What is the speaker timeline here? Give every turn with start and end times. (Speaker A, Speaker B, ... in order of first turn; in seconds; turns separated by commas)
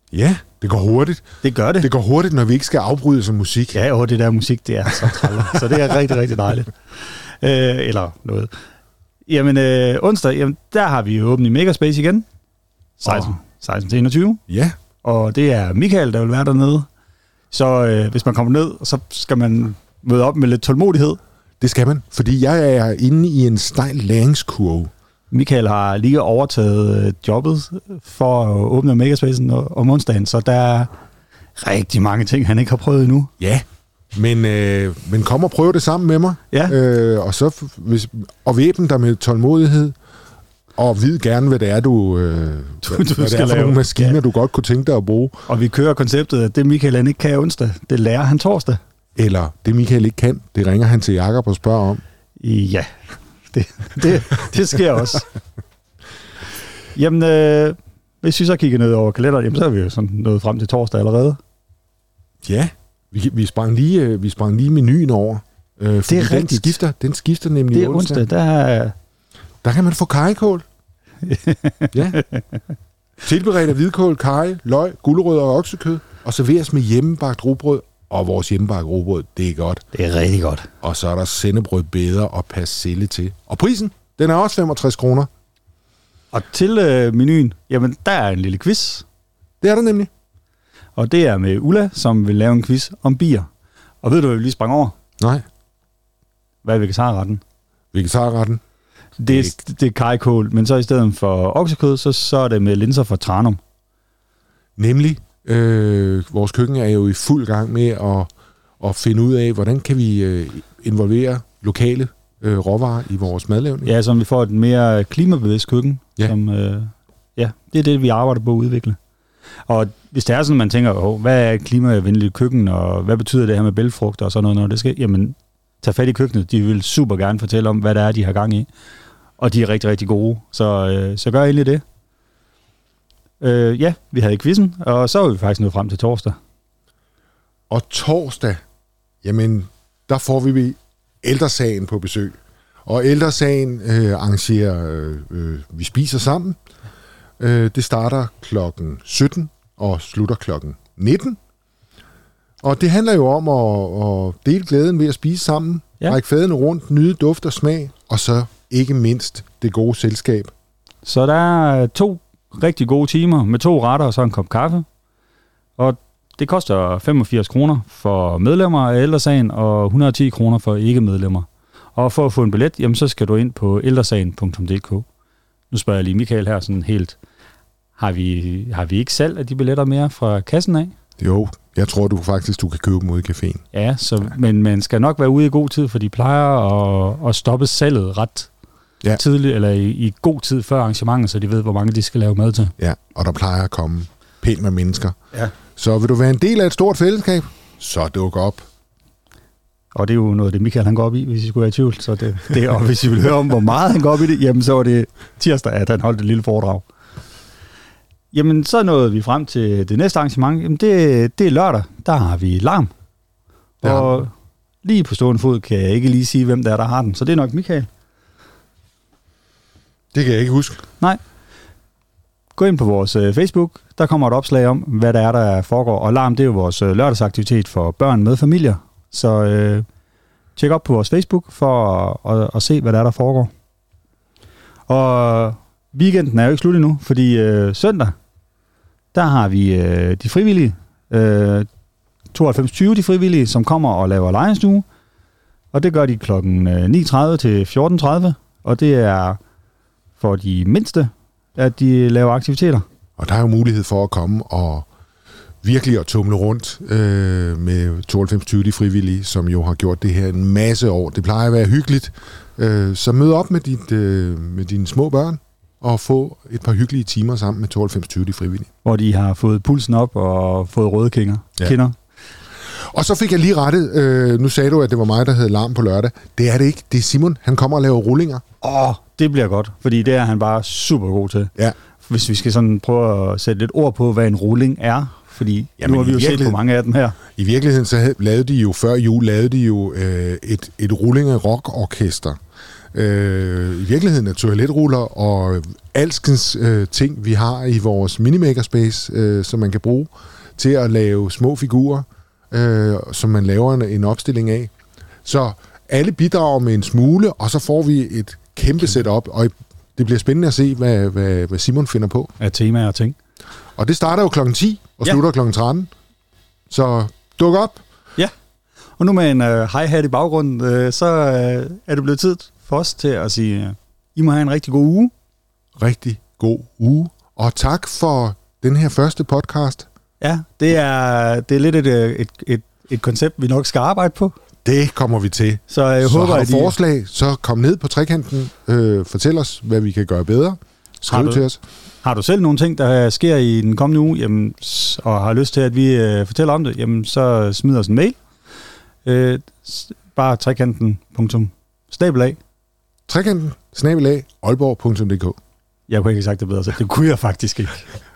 Speaker A: 0.1-1.3, Speaker B: 1.4-1.9, Speaker A: 1.8-3.8, Speaker B: 3.7-6.7, Speaker B: 7.4-8.5, Speaker B: 9.3-12.2, Speaker B: 13.0-14.4, Speaker A: 14.5-14.8, Speaker B: 15.0-16.9, Speaker B: 17.5-21.2, Speaker A: 21.6-24.9, Speaker B: 25.3-30.9, Speaker B: 31.6-33.3, Speaker A: 33.4-40.0, Speaker A: 40.8-45.4, Speaker B: 42.8-44.2, Speaker B: 45.5-48.8, Speaker A: 49.2-52.0, Speaker B: 52.4-52.9, Speaker B: 53.5-55.3, Speaker B: 57.0-61.4, Speaker A: 62.4-68.3, Speaker B: 66.1-66.8, Speaker B: 67.7-68.9, Speaker A: 69.6-70.6, Speaker B: 71.2-72.4, Speaker A: 71.9-72.2, Speaker A: 73.2-79.8, Speaker B: 79.9-80.7, Speaker A: 80.8-85.3, Speaker B: 86.3-89.0, Speaker A: 89.6-90.1, Speaker B: 91.0-93.5, Speaker B: 94.0-94.9, Speaker B: 96.6-97.4, Speaker A: 97.9-98.6, Speaker B: 99.2-103.6, Speaker A: 99.3-99.5, Speaker A: 104.8-108.3, Speaker A: 108.8-113.9, Speaker B: 113.8-119.0, Speaker B: 119.7-128.7, Speaker B: 129.4-131.8, Speaker B: 133.4-136.4, Speaker A: 137.7-138.6, Speaker A: 139.2-146.6, Speaker A: 147.4-151.4, Speaker A: 152.6-160.5, Speaker B: 161.1-164.8, Speaker B: 165.8-175.1, Speaker B: 175.7-177.2, Speaker B: 178.0-180.9, Speaker A: 181.2-183.6, Speaker B: 183.7-188.5, Speaker B: 189.1-192.7, Speaker A: 192.8-195.2, Speaker A: 195.8-198.6, Speaker B: 199.9-206.8, Speaker B: 208.3-212.9, Speaker A: 213.8-214.2, Speaker B: 213.8-214.3, Speaker B: 214.8-217.9, Speaker A: 220.1-220.8, Speaker B: 222.6-229.8, Speaker B: 230.6-233.5, Speaker B: 234.9-238.1, Speaker B: 239.1-241.7, Speaker B: 242.3-244.8, Speaker B: 245.7-249.4, Speaker B: 250.2-252.8, Speaker A: 253.2-254.9, Speaker A: 255.6-268.7, Speaker B: 268.8-272.0, Speaker A: 272.9-278.4, Speaker B: 278.6-281.5, Speaker B: 282.1-287.2, Speaker A: 285.8-286.6, Speaker A: 287.3-292.4, Speaker A: 292.9-304.7, Speaker A: 305.2-312.3, Speaker B: 312.4-313.2, Speaker A: 313.8-315.9, Speaker A: 316.7-317.8, Speaker B: 319.0-325.1, Speaker A: 325.8-329.9, Speaker B: 330.2-334.3, Speaker A: 334.6-341.6, Speaker B: 335.7-336.8, Speaker B: 341.1-341.5, Speaker B: 342.0-348.2, Speaker B: 349.1-352.4, Speaker A: 353.1-355.4, Speaker B: 355.9-357.8